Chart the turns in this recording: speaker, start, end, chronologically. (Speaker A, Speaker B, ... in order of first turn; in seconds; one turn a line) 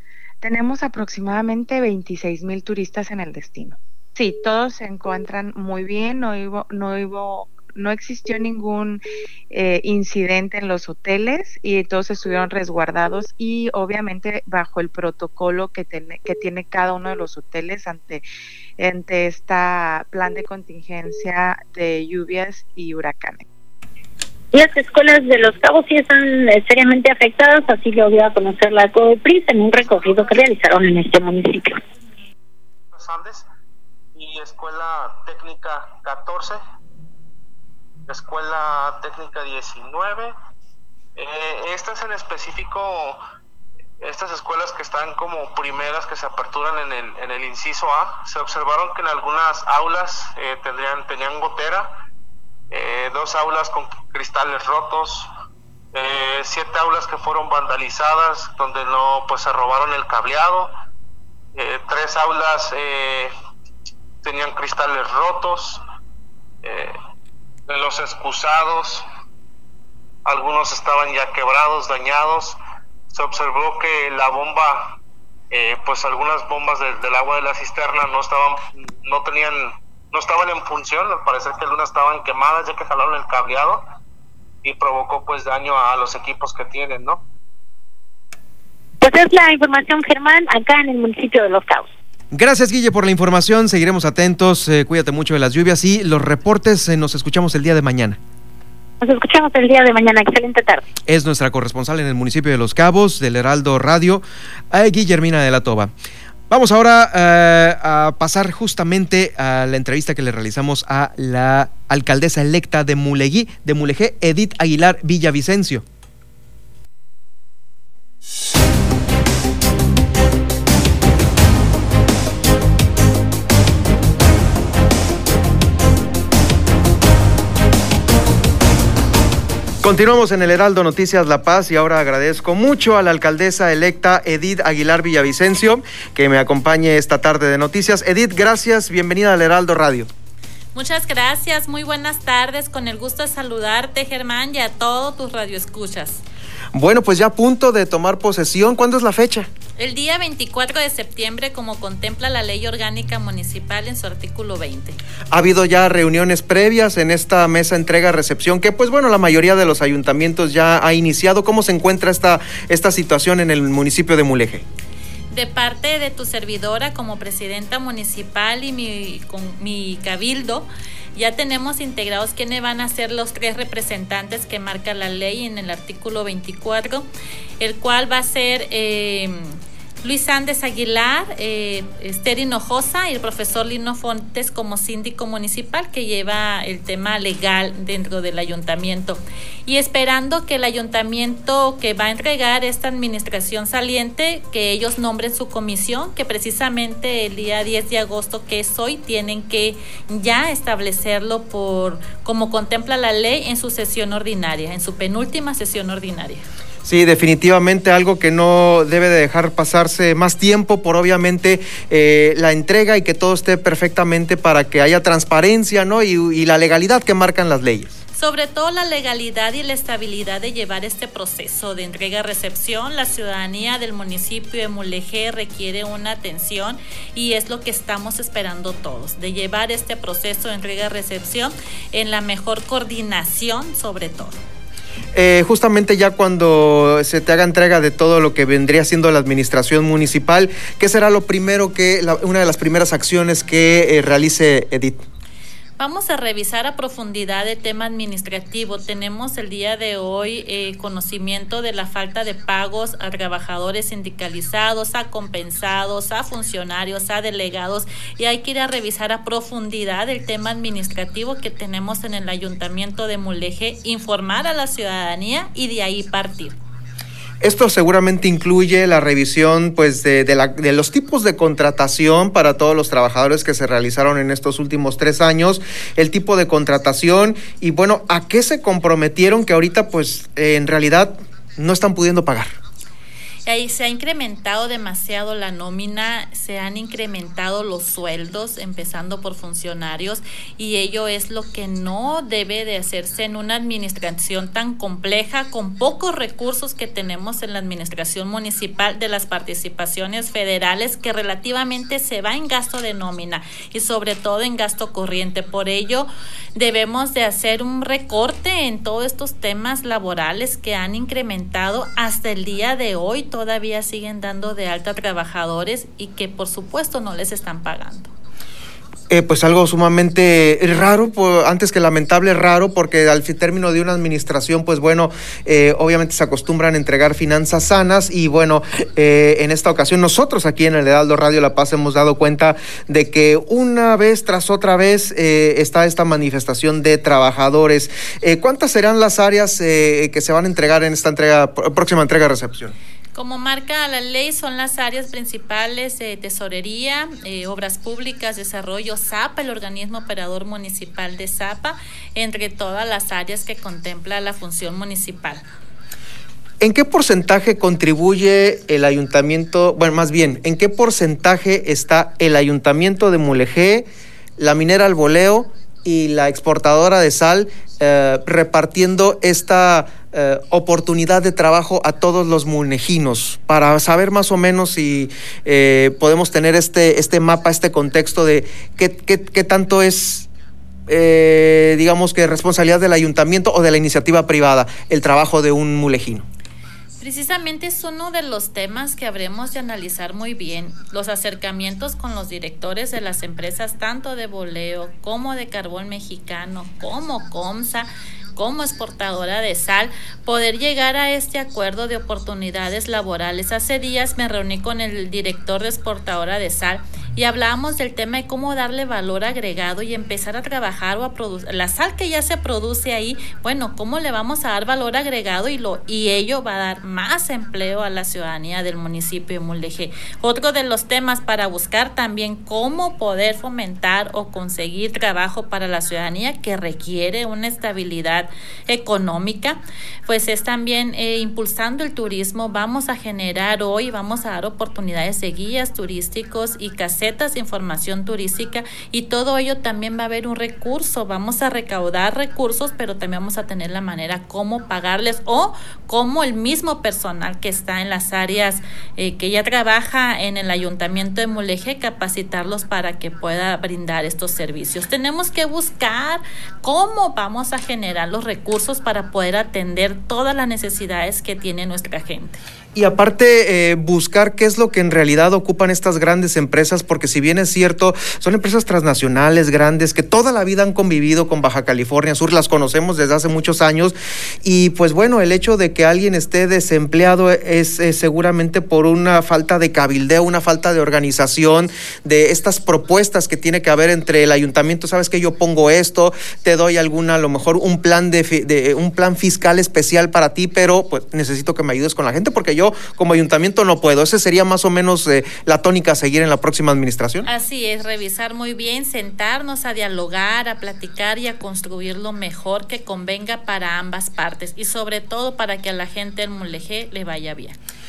Speaker A: 0.4-18.2
Speaker A: 18.8-23.4
Speaker B: 24.5-31.8
Speaker C: 32.9-33.4
Speaker C: 34.1-36.6
Speaker C: 38.1-40.3
Speaker C: 41.2-43.2
Speaker C: 44.0-51.9
Speaker C: 52.7-55.3
Speaker C: 55.9-60.7
Speaker C: 61.5-63.3
Speaker C: 64.2-65.8
Speaker C: 66.6-66.9
Speaker C: 67.7-69.0
Speaker C: 70.2-72.6
Speaker C: 73.1-75.0
Speaker C: 75.5-83.8
Speaker C: 84.6-87.2
Speaker B: 89.0-91.9
Speaker D: 92.3-98.2
Speaker B: 99.0-100.8
Speaker D: 101.1-105.9
Speaker D: 106.5-115.8
Speaker D: 129.8-140.1
Speaker E: 140.7-146.2
Speaker D: 146.7-149.5
Speaker E: 149.8-155.0
Speaker D: 155.3-164.6
Speaker E: 165.3-177.1
Speaker E: 177.6-206.4
Speaker D: 206.8-218.0
Speaker E: 218.2-234.4
Speaker D: 235.1-245.0
Speaker E: 245.8-266.6
Speaker D: 267.4-282.5
Speaker E: 283.4-318.1
Speaker D: 319.1-342.7
Speaker E: 343.1-355.4
Speaker D: 356.6-363.9
Speaker D: 364.4-380.3
Speaker D: 380.9-386.2
Speaker E: 387.0-462.4
Speaker D: 462.7-497.3
Speaker E: 497.2-507.5